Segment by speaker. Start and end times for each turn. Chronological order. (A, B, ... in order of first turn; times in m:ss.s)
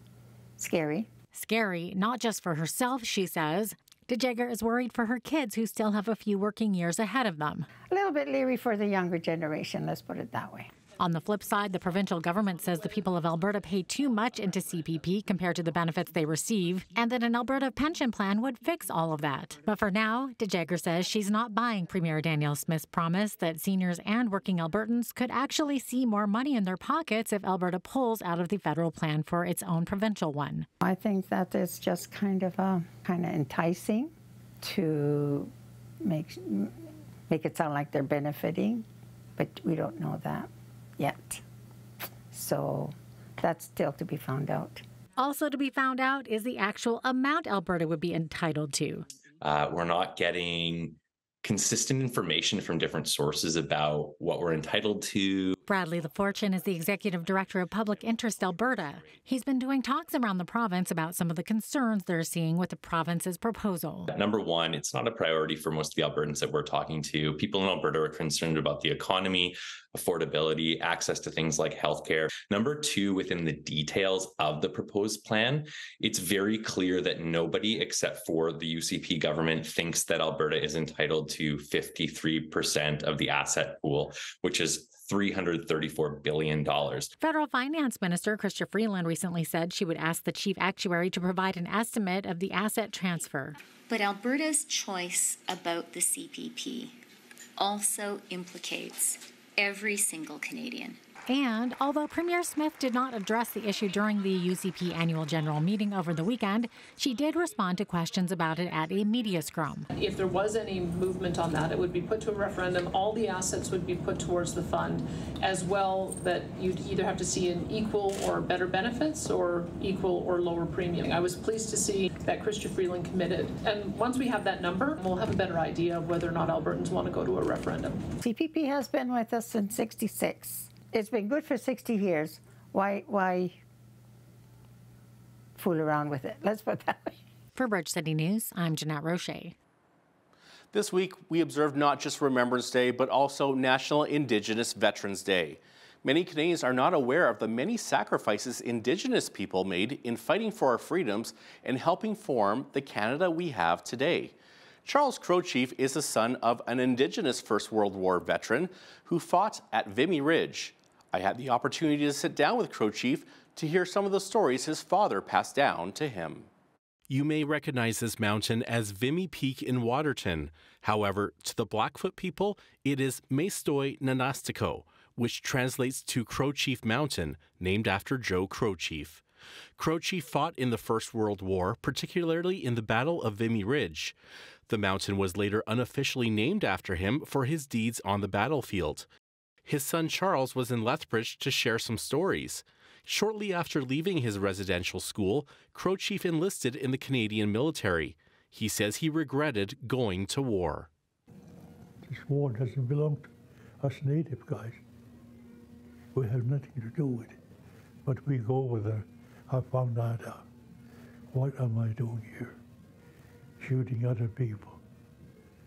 0:00.6-0:01.1 A
0:01.3-0:07.7 B
0:07.9-0:10.7 A
0:11.0-0:30.7 B
0:30.8-0:35.5 A
0:36.0-0:36.7 A
0:37.3-0:38.8 A
0:39.4-0:41.4 A
0:42.3-0:44.8 A
0:45.2-0:49.1 B
0:49.4-0:55.6 C
0:55.6-1:04.1 B
1:04.1-1:27.1 C
1:27.2-1:33.6 B
1:33.9-1:37.0 D
1:37.6-1:41.0 D
1:41.3-1:49.9 B
1:49.9-2:08.0 E
2:08.2-2:13.6 A
2:15.6-2:17.2 A
2:17.5-2:19.5 B
2:20.7-2:34.3 F
2:34.8-2:46.5 F
2:47.1-2:59.2 F
2:59.8-3:04.1 F
3:04.7-3:09.1 F
3:09.6-3:20.9 F
3:22.0-3:23.3 G
3:23.8-3:24.8 G
3:26.1-3:27.4 G
3:28.0-3:30.4 G
3:31.3-3:32.6 G
3:33.6-3:34.8 G